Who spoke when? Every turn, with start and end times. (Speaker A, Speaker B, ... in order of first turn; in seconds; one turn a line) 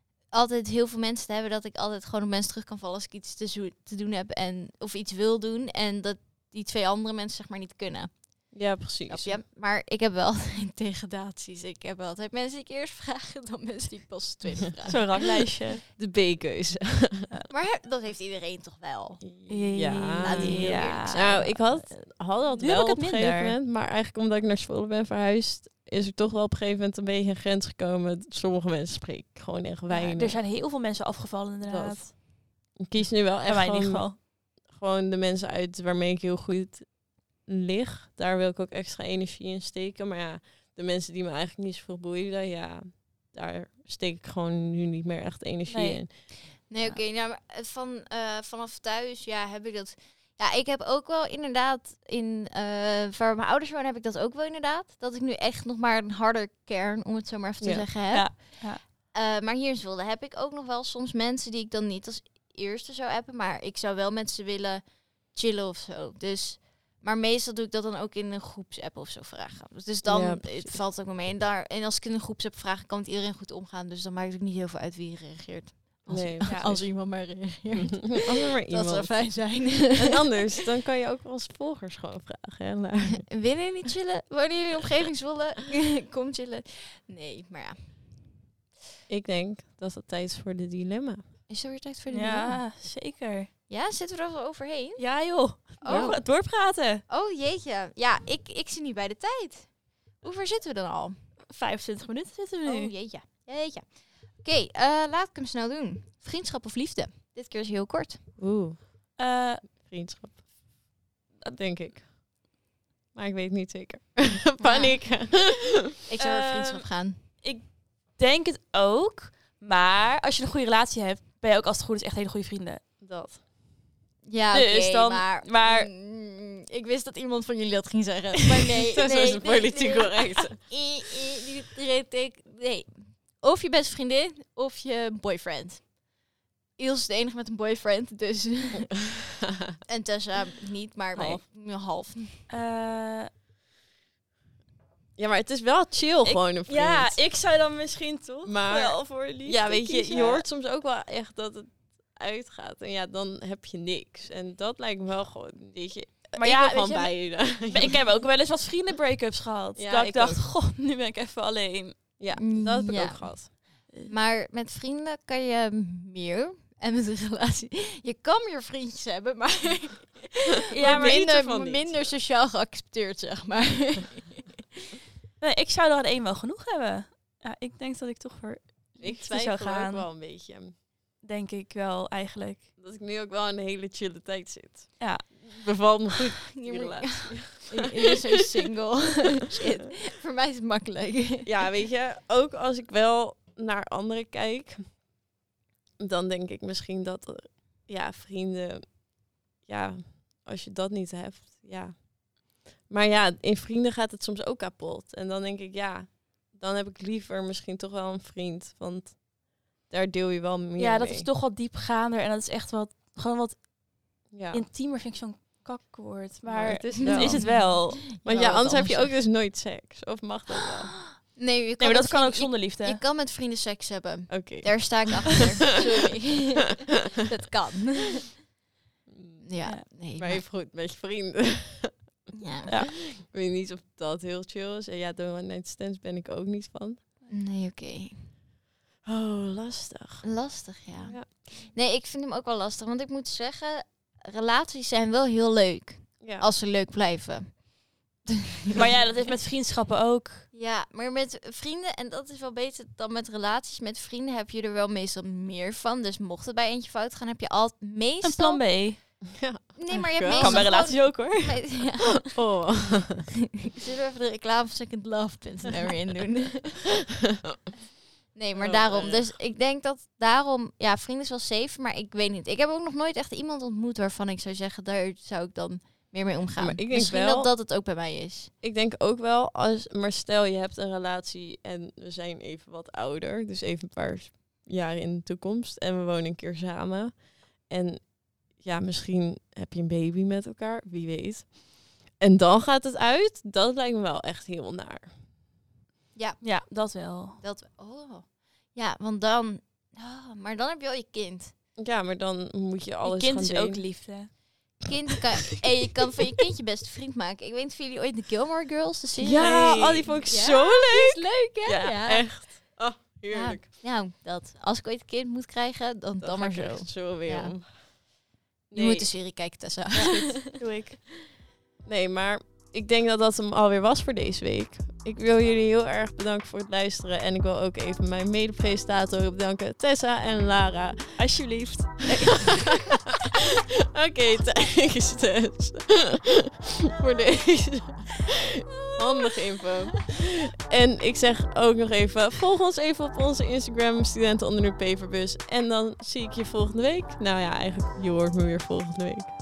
Speaker A: 0.3-8.5
Speaker B: 8.5-9.4
Speaker A: 9.1-15.2
Speaker C: 14.9-15.8
Speaker B: 15.1-17.3
Speaker A: 17.5-19.2
Speaker B: 19.2-30.4
Speaker C: 19.5-21.5
Speaker A: 20.2-21.9
Speaker C: 22.6-23.5
Speaker C: 29.9-32.1
Speaker B: 31.6-46.1
Speaker C: 33.4-34.2
Speaker C: 45.7-47.0
Speaker A: 46.5-80.3
Speaker B: 57.6-57.8
Speaker C: 58.1-58.8
Speaker B: 70.0-70.8
Speaker B: 76.1-77.0
Speaker C: 76.4-76.7
Speaker B: 77.7-83.3
Speaker A: 83.3-88.1
Speaker B: 89.1-91.2
Speaker A: 91.5-92.6
Speaker C: 92.1-93.5
Speaker A: 93.7-95.0
Speaker C: 95.0-97.0
Speaker A: 95.6-96.3
Speaker B: 95.9-96.2
Speaker A: 97.1-101.2
Speaker C: 101.5-102.9
Speaker A: 102.6-108.3
Speaker B: 108.4-109.1
Speaker C: 109.2-109.6
Speaker B: 109.7-110.4
Speaker B: 111.5-112.1
Speaker B: 113.1-115.9
Speaker A: 114.6-115.0
Speaker A: 116.1-117.2
Speaker C: 116.2-122.8
Speaker B: 123.0-123.4
Speaker A: 124.2-135.9
Speaker C: 124.5-125.9
Speaker B: 128.7-130.8
Speaker A: 136.8-139.2
Speaker A: 139.9-142.4
Speaker B: 141.1-141.4
Speaker C: 142.5-143.3
Speaker B: 145.2-147.2
Speaker C: 146.2-150.4
Speaker B: 148.4-158.0
Speaker C: 156.4-162.0
Speaker B: 159.8-160.5
Speaker B: 162.2-163.5
Speaker A: 162.3-174.6
Speaker C: 170.7-171.3
Speaker B: 170.7-172.1
Speaker C: 175.4-180.1
Speaker B: 179.0-180.7
Speaker C: 181.2-182.7
Speaker B: 182.8-187.8
Speaker C: 185.0-185.4
Speaker A: 186.5-191.7
Speaker B: 191.4-195.0
Speaker B: 196.0-199.0
Speaker B: 199.6-202.2
Speaker B: 202.8-211.3
Speaker C: 210.8-213.7
Speaker B: 214.3-214.6
Speaker C: 214.5-218.0
Speaker B: 216.4-221.0
Speaker A: 216.6-219.1
Speaker A: 221.3-228.4
Speaker C: 221.8-223.0
Speaker B: 224.3-225.4
Speaker B: 229.1-229.4
Speaker A: 229.4-230.4
Speaker B: 230.2-232.3
Speaker A: 232.3-232.7
Speaker B: 232.8-237.0
Speaker A: 237.3-238.3
Speaker B: 239.0-240.3
Speaker A: 240.2-247.7
Speaker B: 241.0-241.3
Speaker B: 246.2-246.5
Speaker C: 248.7-250.5
Speaker A: 250.5-258.6
Speaker C: 258.2-259.0
Speaker B: 259.3-260.8
Speaker A: 259.8-262.5
Speaker C: 259.9-261.7
Speaker B: 262.3-263.3
Speaker A: 263.6-266.9
Speaker A: 268.3-278.5
Speaker B: 268.5-269.4
Speaker B: 276.6-277.5
Speaker B: 278.6-291.6
Speaker B: 292.1-295.1
Speaker A: 296.1-296.6
Speaker C: 296.4-297.4
Speaker A: 297.4-301.5
Speaker B: 301.8-304.0
Speaker C: 303.0-304.8
Speaker A: 304.9-312.6
Speaker C: 309.2-310.4
Speaker B: 309.3-311.2
Speaker C: 311.6-312.0
Speaker B: 312.0-313.6
Speaker A: 313.3-317.6
Speaker B: 316.2-317.9
Speaker B: 318.7-319.1
Speaker A: 318.7-320.6
Speaker C: 319.9-321.1
Speaker B: 321.8-331.5
Speaker C: 331.2-332.6
Speaker B: 332.1-332.9
Speaker B: 333.8-349.3
Speaker A: 338.9-339.4